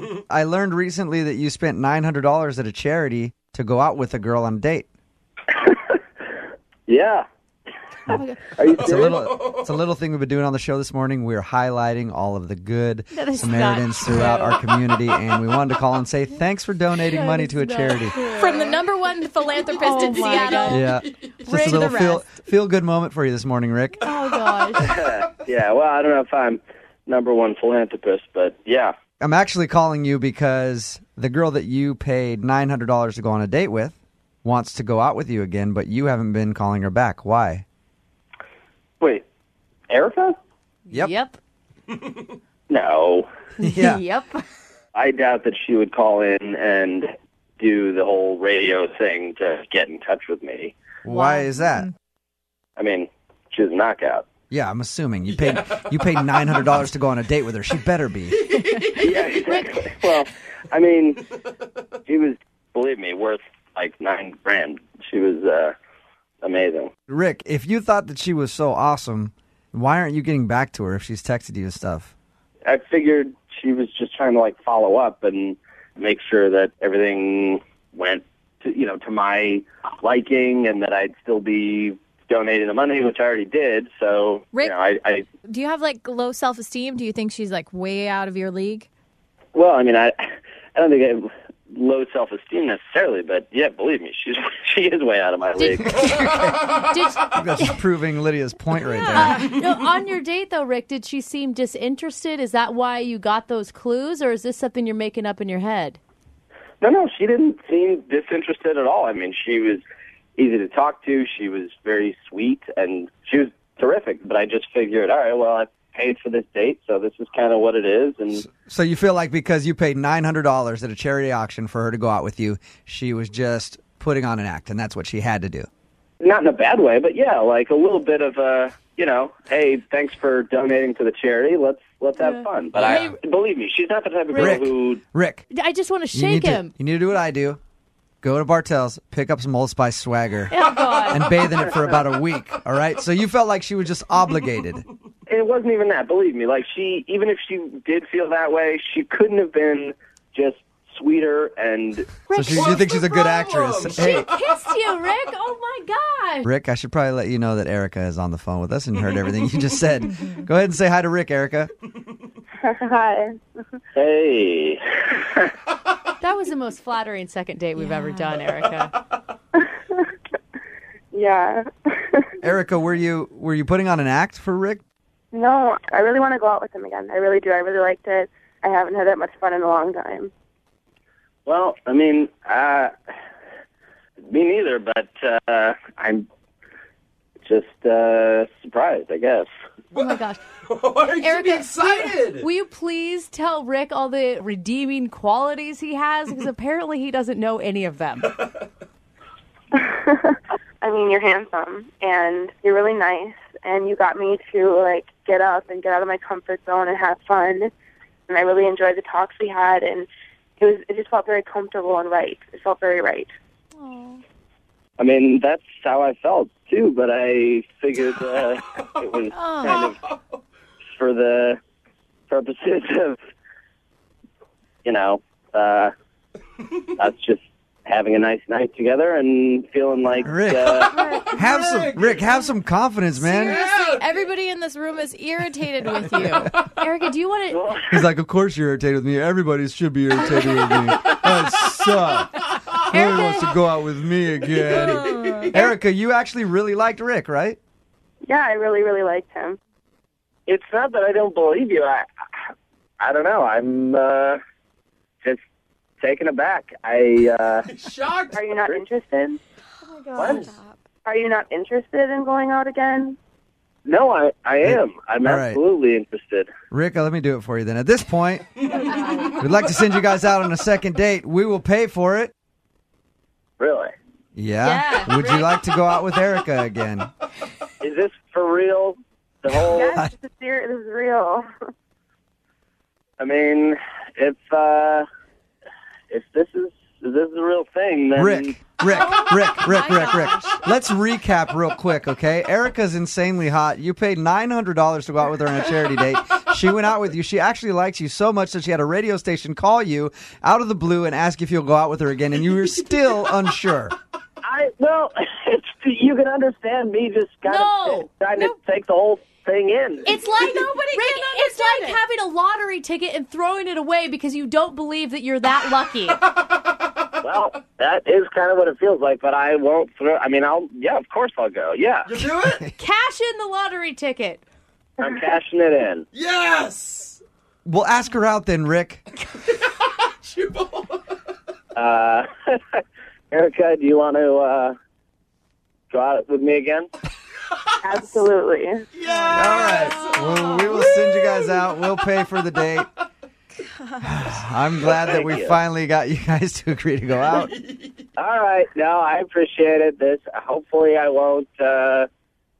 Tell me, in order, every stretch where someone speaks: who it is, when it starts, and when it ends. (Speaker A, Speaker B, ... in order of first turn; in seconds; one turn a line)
Speaker A: 0.3-4.9
Speaker B: 5.5-5.9
Speaker B: 6.9-7.2
Speaker C: 8.1-8.4
Speaker B: 8.6-9.1
Speaker D: 8.8-9.7
Speaker A: 8.8-18.1
Speaker C: 13.1-14.7
Speaker C: 17.0-18.8
Speaker E: 18.4-20.9
Speaker C: 19.7-20.9
Speaker A: 20.6-24.1
Speaker D: 20.9-21.8
Speaker C: 21.4-22.2
Speaker C: 24.0-24.9
Speaker B: 24.9-28.9
Speaker A: 29.2-37.6
Speaker B: 39.9-40.4
Speaker C: 40.9-41.4
Speaker B: 42.7-43.3
Speaker C: 43.6-44.4
Speaker A: 43.6-44.0
Speaker B: 44.9-50.7
Speaker A: 51.0-51.9
Speaker C: 51.1-51.6
Speaker B: 52.8-54.2
Speaker A: 54.5-58.5
Speaker D: 55.3-55.9
Speaker D: 58.5-60.0
Speaker B: 59.0-61.3
Speaker C: 59.3-59.7
Speaker B: 62.1-65.7
Speaker B: 66.4-66.9
Speaker A: 67.1-72.1
Speaker B: 72.7-78.1
Speaker E: 77.5-79.0
Speaker B: 78.7-85.2
Speaker E: 84.5-88.9
Speaker B: 89.5-95.8
Speaker C: 95.5-97.8
Speaker A: 95.8-99.5
Speaker D: 96.1-96.7
Speaker C: 99.0-106.0
Speaker B: 106.8-109.8
Speaker B: 110.4-118.5
Speaker A: 118.5-125.7
Speaker B: 126.2-135.0
Speaker C: 132.2-133.1
Speaker A: 132.8-133.1
Speaker C: 134.3-134.6
Speaker A: 134.3-135.5
Speaker C: 135.5-136.7
Speaker A: 136.1-137.6
Speaker A: 138.2-144.8
Speaker C: 140.5-141.5
Speaker B: 145.3-152.2
Speaker C: 152.3-152.9
Speaker A: 152.3-154.3
Speaker D: 152.4-154.4
Speaker C: 153.9-156.5
Speaker A: 156.4-161.7
Speaker F: 162.6-163.3
Speaker B: 163.9-165.5
Speaker C: 166.2-168.9
Speaker E: 167.8-168.2
Speaker F: 169.6-170.1
Speaker F: 171.1-172.3
Speaker A: 172.4-174.8
Speaker F: 175.3-180.3
Speaker B: 181.4-182.9
Speaker B: 184.3-186.2
Speaker B: 187.4-189.5
Speaker D: 189.9-192.5
Speaker C: 189.9-190.4
Speaker C: 191.0-198.4
Speaker F: 199.7-207.7
Speaker F: 208.3-210.1
Speaker F: 210.6-213.3
Speaker C: 213.8-214.2
Speaker B: 215.0-220.0
Speaker C: 219.3-219.9
Speaker B: 221.0-221.6
Speaker B: 222.3-223.2
Speaker B: 224.8-225.9
Speaker B: 226.9-230.9
Speaker A: 230.2-233.6
Speaker D: 230.9-232.3
Speaker C: 230.9-231.2
Speaker E: 233.2-236.5
Speaker D: 233.4-234.2
Speaker C: 236.7-237.7
Speaker B: 237.5-237.9
Speaker A: 237.9-247.6
Speaker C: 242.9-243.4
Speaker F: 248.2-249.6
Speaker B: 250.5-252.1
Speaker B: 253.0-254.4
Speaker B: 256.0-257.6
Speaker D: 257.7-258.4
Speaker F: 258.3-259.4
Speaker B: 258.6-258.8
Speaker E: 259.9-260.8
Speaker D: 260.2-260.5
Speaker F: 261.0-263.2
Speaker B: 263.9-266.5
Speaker A: 264.6-265.6
Speaker A: 266.7-268.6
Speaker C: 268.9-269.2
Speaker A: 269.4-272.3
Speaker B: 273.6-273.9
Speaker A: 274.3-277.1
Speaker C: 274.6-275.5
Speaker B: 277.8-280.0
Speaker F: 279.6-281.4
Speaker B: 283.2-285.1
Speaker B: 286.1-288.6
Speaker A: 288.1-303.9
Speaker C: 288.9-290.6
Speaker B: 304.4-310.1
Speaker C: 307.4-308.1
Speaker E: 310.1-312.0
Speaker C: 310.1-316.2
Speaker B: 317.2-322.1
Speaker D: 322.1-322.7
Speaker C: 322.8-324.4
Speaker B: 325.0-326.1
Speaker D: 326.1-327.2
Speaker A: 327.6-329.0
Speaker D: 329.4-331.1
Speaker B: 331.7-334.7
Speaker B: 335.9-336.9
Speaker F: 337.8-338.8
Speaker D: 338.9-341.4
Speaker A: 339.3-342.9
Speaker A: 344.0-347.5
Speaker B: 344.9-345.6
Speaker D: 347.4-347.9
Speaker B: 348.2-352.1